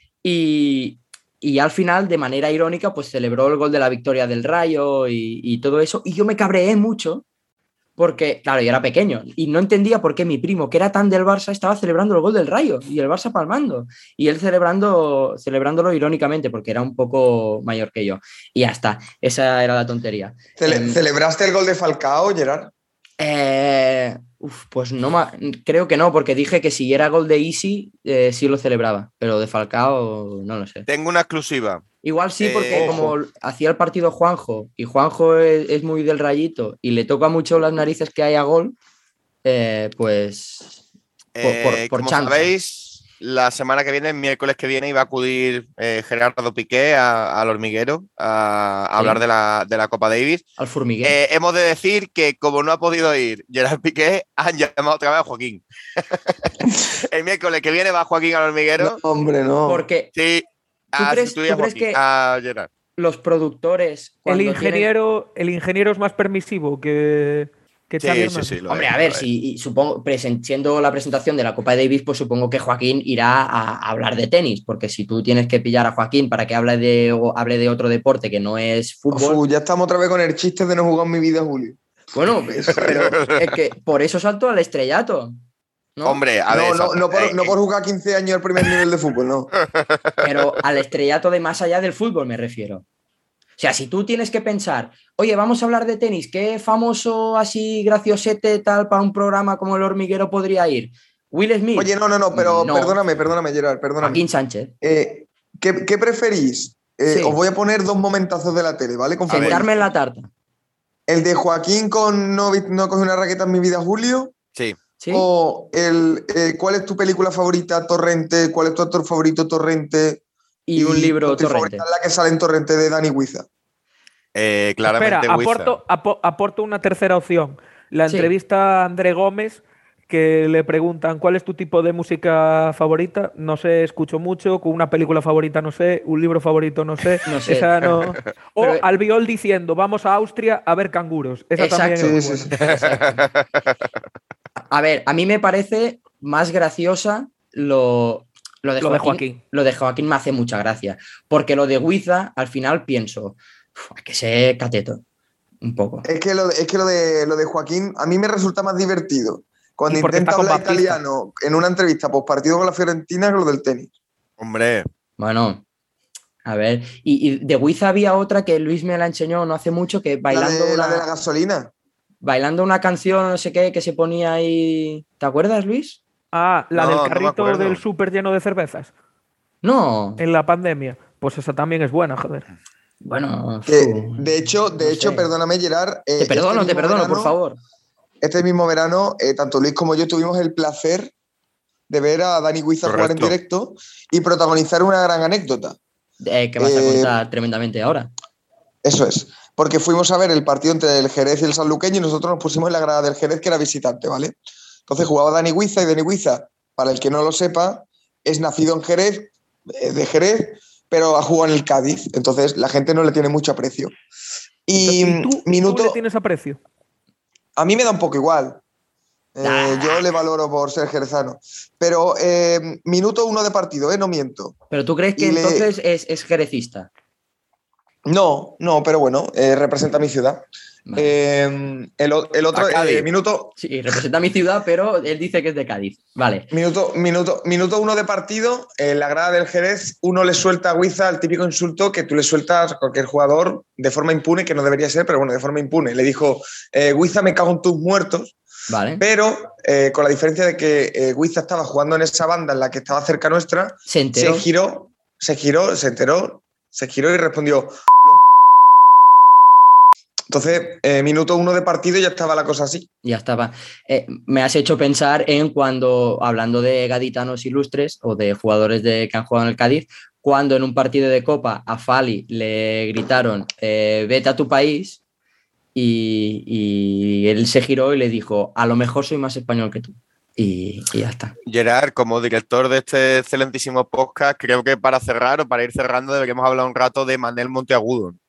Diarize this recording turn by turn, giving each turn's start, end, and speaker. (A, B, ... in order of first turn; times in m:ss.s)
0:00.2-0:07.2 A
0:08.0-0:21.0 A
0:20.6-0:22.7 B
0:23.2-0:30.9 A
0:30.9-0:31.8 C
0:32.0-0:38.8 A
0:32.4-0:33.1 C
0:32.7-0:33.2 B
0:39.4-0:40.8 A
0:41.4-0:50.5 C
0:41.4-0:42.5 A
0:49.0-0:49.2 A
0:50.6-0:51.2 A
0:51.0-0:56.3 C
0:57.0-0:59.0 C
0:58.8-0:59.8 B
0:59.7-1:00.1 A
1:00.1-1:02.7 C
1:01.0-1:02.0 A
1:03.0-1:04.9 A
1:04.3-1:08.6 D
1:08.0-1:09.3 C
1:08.7-1:19.4 A
1:19.1-1:23.1 B
1:22.1-1:25.4 A
1:22.8-1:23.4 C
1:26.0-1:26.2 A
1:26.0-1:27.5 C
1:26.5-1:29.5 B
1:29.8-1:30.2 C
1:30.2-1:32.8 A
1:33.6-1:43.0 A
1:41.8-1:44.2 B
1:44.0-1:44.7 A
1:44.8-1:49.8 B
1:47.1-1:47.4 A
1:49.3-1:50.3 A
1:49.3-1:49.6 C
1:51.1-1:54.4 B
1:55.0-1:55.3 A
1:55.1-2:00.2 B
2:00.7-2:01.9 A
2:00.8-2:03.5 B
2:04.4-2:05.8 C
2:04.8-2:22.5 D
2:08.1-2:08.3 A
2:17.3-2:17.8 A
2:18.6-2:18.8 A
2:21.6-2:23.3 A
2:22.0-2:22.5 B
2:22.6-2:23.5 C
2:24.7-2:35.0 A
2:28.8-2:29.4 D
2:35.6-2:36.1 A
2:36.0-2:43.9 B
2:39.9-2:41.0 D
2:44.4-2:44.9 C
2:45.2-2:45.6 A
2:46.4-2:51.1 A
2:50.3-2:51.7 B
2:52.2-2:56.0 A
2:56.3-2:58.9 D
2:56.8-2:57.8 C
2:59.6-3:00.2 A
3:00.2-3:02.4 D
3:03.0-3:05.3 A
3:03.7-3:07.4 B
3:06.2-3:07.6 A
3:08.2-3:11.1 B
3:11.9-3:15.8 B
3:12.8-3:13.3 C
3:16.2-3:18.1 A
3:16.6-3:17.2 B
3:18.8-3:24.4 B
3:24.9-3:33.9 B
3:34.7-3:36.0 B
3:34.8-3:36.6 D
3:37.6-3:38.6 B
3:39.4-3:44.6 B
3:39.4-3:40.1 A
3:44.7-3:46.9 A
3:45.2-3:45.7 B
3:48.1-3:53.6 B
3:50.9-3:51.2 A
3:52.5-3:53.1 C
3:53.6-3:56.5 A
3:56.5-4:08.4 B
4:08.7-4:09.0 A
4:09.0-4:18.2 B
4:13.9-4:14.5 A
4:20.3-4:22.9 B
4:23.0-4:35.0 A
4:35.8-4:41.4 A
4:41.5-4:48.2 C